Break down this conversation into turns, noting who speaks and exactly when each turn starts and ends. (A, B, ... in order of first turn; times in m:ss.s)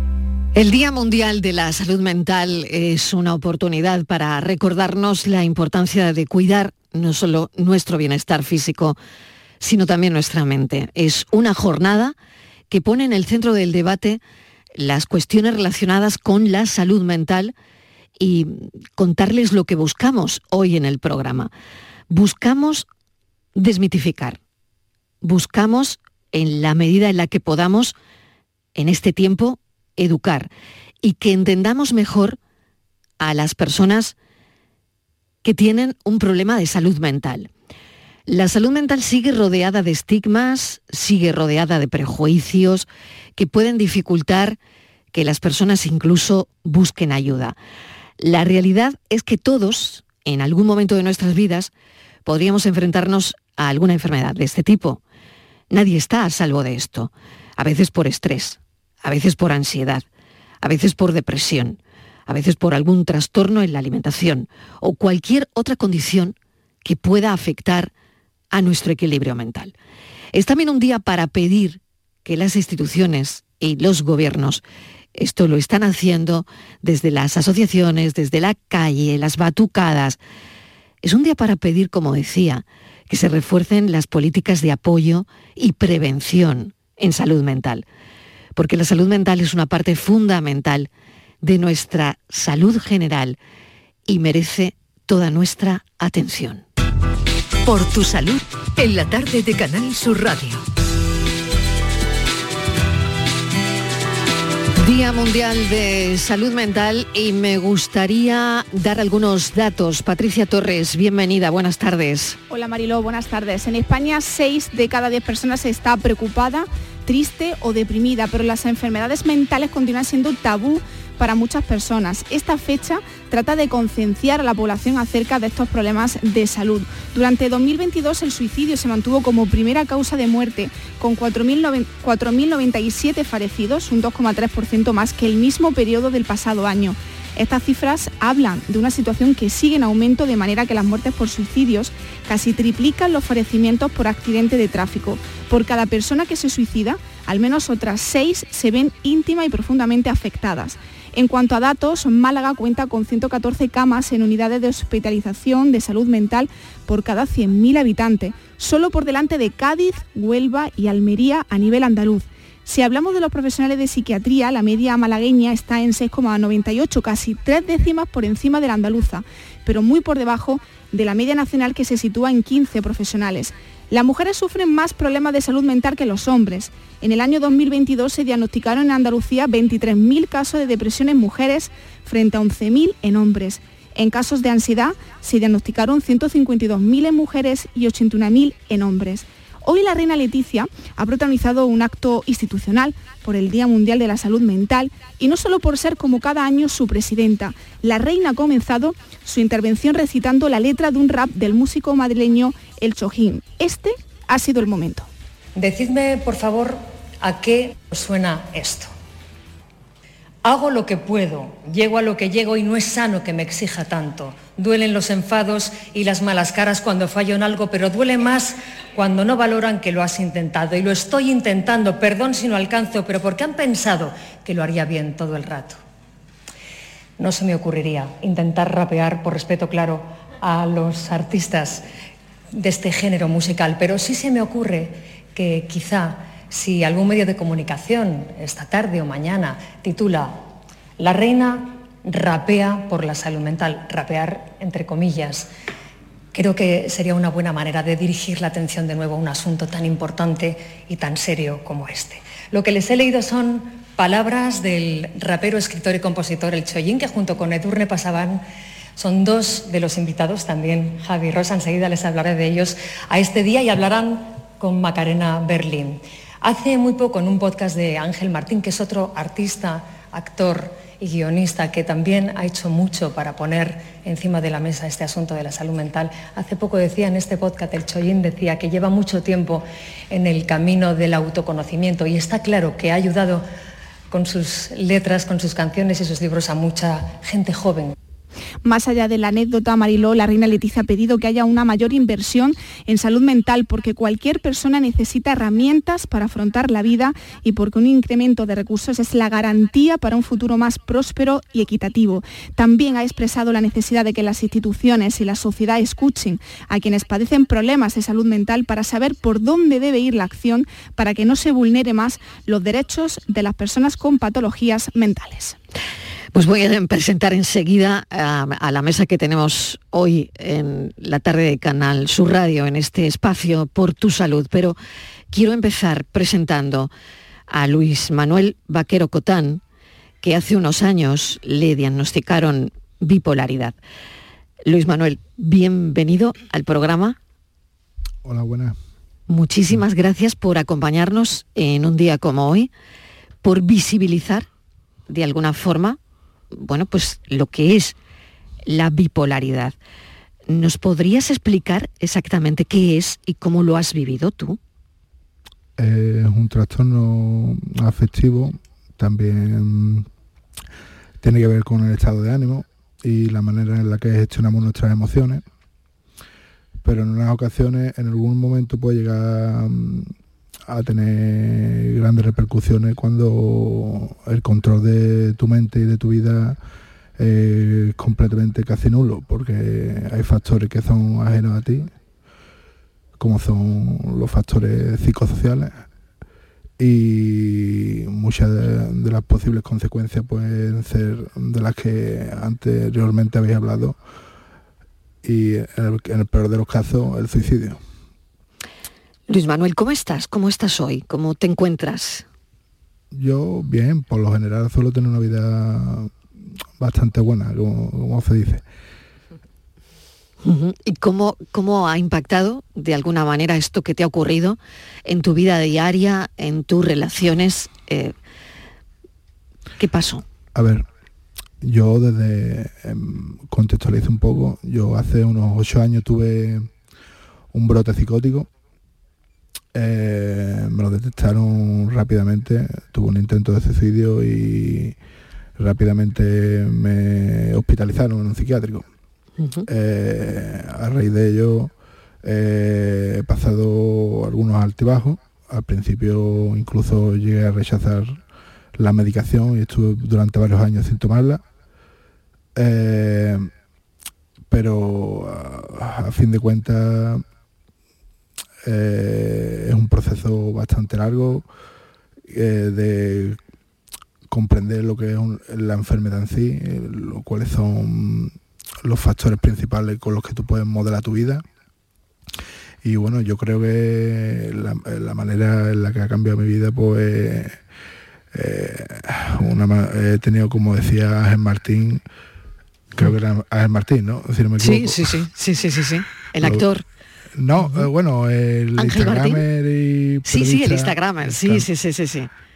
0:00.6-0:09.0 A
0:09.6-0:12.2 A
0:12.7-0:14.2 A
0:14.8-0:17.5 A
0:18.2-0:21.5 A
0:22.1-0:22.9 A
0:23.6-0:24.4 A
0:25.2-0:28.0 A
0:28.8-0:30.5 A
0:31.0-0:32.4 A
0:33.2-0:34.2 A
0:35.4-0:37.5 A
0:38.3-0:44.6 A
0:45.1-0:47.6 A
0:48.2-0:51.7 A
0:52.2-0:55.0 A
0:55.7-1:00.0 A
1:00.6-1:07.9 A
1:08.5-1:09.7 A
1:10.3-1:14.6 A
1:15.2-1:20.2 A
1:21.0-1:27.8 A
1:28.6-1:30.9 A
1:31.4-1:33.4 A
1:34.1-1:36.6 A
1:37.6-1:40.6 B
1:44.8-1:52.4 A
1:52.5-3:25.1 C
3:25.6-3:28.9 D
3:30.4-3:45.8 D
3:47.2-3:51.8 D
3:52.6-4:00.5 D
4:01.0-4:05.5 D
4:06.3-4:18.4 D
4:19.0-4:43.5 D
4:44.1-4:47.9 D
4:48.6-5:15.6 C
5:16.3-5:24.8 A
5:25.3-5:26.9 A
5:27.5-5:29.6 A
5:30.2-5:33.8 A
5:34.7-5:37.2 A
5:38.2-5:38.8 E
5:39.3-5:42.7 A
5:43.4-5:44.5 A
5:45.1-5:46.0 A
5:46.5-5:48.0 A
5:48.7-5:49.8 A
5:50.5-5:54.6 A
5:55.8-6:00.1 E
6:01.2-6:05.4 E
6:06.8-6:10.1 E
6:10.7-6:16.6 E
6:17.2-6:21.9 E
6:23.2-6:25.8 E
6:26.8-6:34.0 E
6:35.2-6:37.8 E
6:39.3-6:42.2 A
6:43.1-6:46.2 E
6:46.8-6:48.6 E
6:50.4-6:58.1 A
6:59.8-7:00.2 A
7:00.5-7:00.9 E
7:01.6-7:06.7 E
7:07.5-7:08.5 E
7:09.7-7:15.0 E
7:15.6-7:18.9 E
7:19.4-7:19.7 A
7:19.7-7:21.7 E
7:22.2-7:28.2 E
7:28.8-7:31.4 E
7:32.6-7:33.5 E
7:34.5-7:37.2 E
7:38.6-7:41.5 E
7:42.3-7:43.4 E
7:44.3-7:51.4 E
7:52.8-7:57.6 E
7:58.3-8:02.0 E
8:03.0-8:05.2 E
8:04.6-8:06.8 A
8:06.4-8:06.6 E
8:07.4-8:11.7 E
8:08.8-8:09.4 A
8:10.3-8:12.3 A